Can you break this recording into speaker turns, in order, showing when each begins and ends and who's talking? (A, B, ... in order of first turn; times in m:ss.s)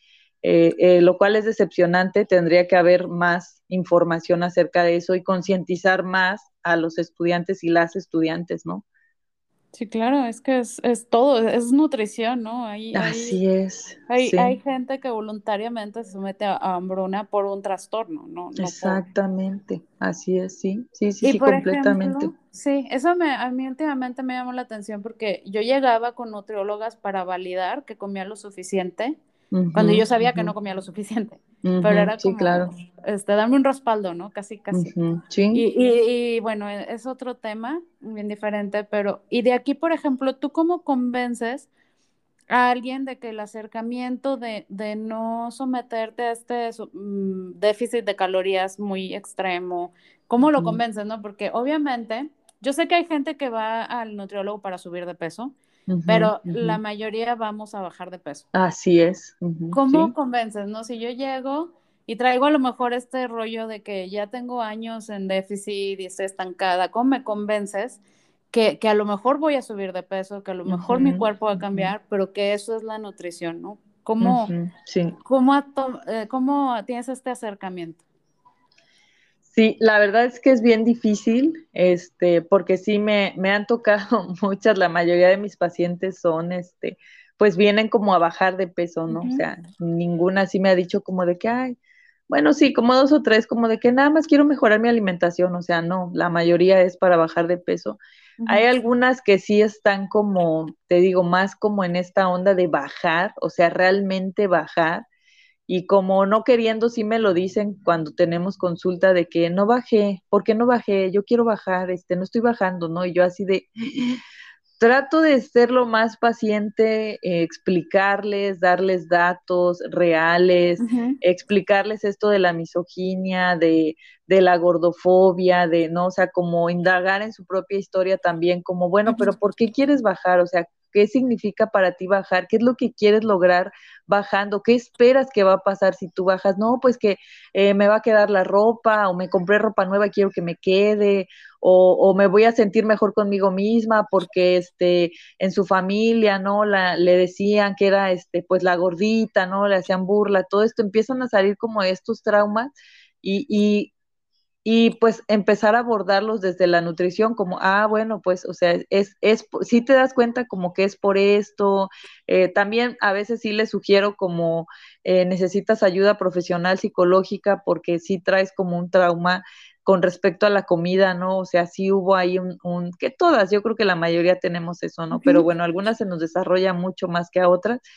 0:00.4-0:08.8 A
0:09.7-0:13.4 B
0:12.9-0:14.6 A
0:14.1-0:19.0 B
0:18.6-0:22.3 A
0:21.2-0:29.2 B
0:29.5-0:30.5 A
0:29.7-0:34.9 B
0:31.6-0:32.7 A
0:34.7-0:35.6 A
0:35.5-0:41.7 B
0:42.5-0:55.5 B
0:50.4-0:50.8 A
0:55.9-0:56.8 A
0:56.1-0:58.4 B
0:58.5-1:00.1 A
0:59.7-1:14.5 B
1:10.6-1:11.9 A
1:14.2-1:15.2 A
1:15.2-1:18.0 B
1:19.4-1:31.8 A
1:29.1-1:29.4 B
1:32.3-1:45.0 A
1:45.7-1:54.2 A
1:54.8-2:32.7 A
2:00.8-2:01.2 B
2:33.2-2:33.9 A
2:34.6-2:57.8 A
2:55.1-2:55.4 B